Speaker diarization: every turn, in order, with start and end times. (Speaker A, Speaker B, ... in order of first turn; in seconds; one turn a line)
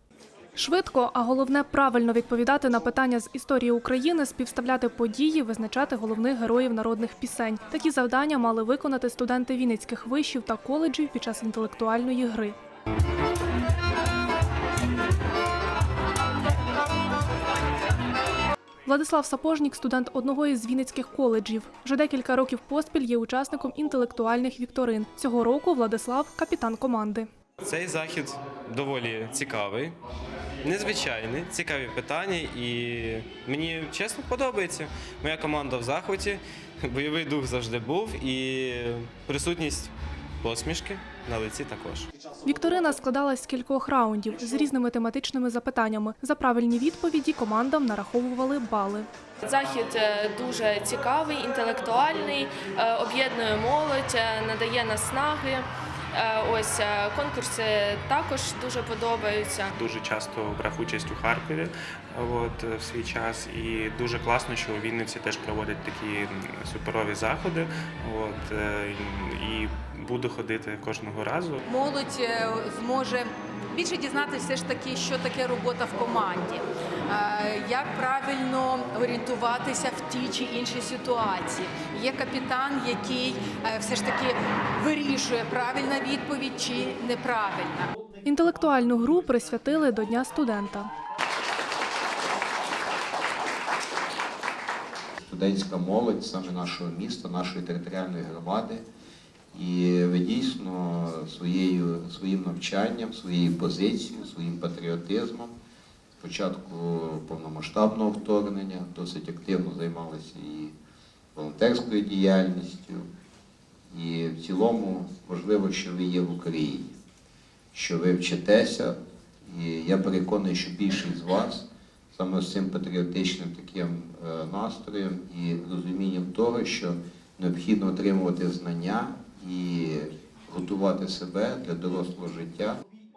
Speaker A: 0.6-12.6
Speaker A: 18.9-27.3
Speaker B: 27.6-30.0
Speaker B: 30.6-42.1
Speaker A: 42.4-49.1
Speaker C: 49.4-59.7
Speaker D: 59.7-71.6
Speaker E: 71.7-87.9
Speaker A: 88.2-90.9
Speaker F: 95.2-98.8
Speaker F: 99.5-105.5
Speaker F: 106.2-110.7
Speaker F: 111.3-113.1
Speaker F: 113.9-116.9
Speaker F: 117.7-132.8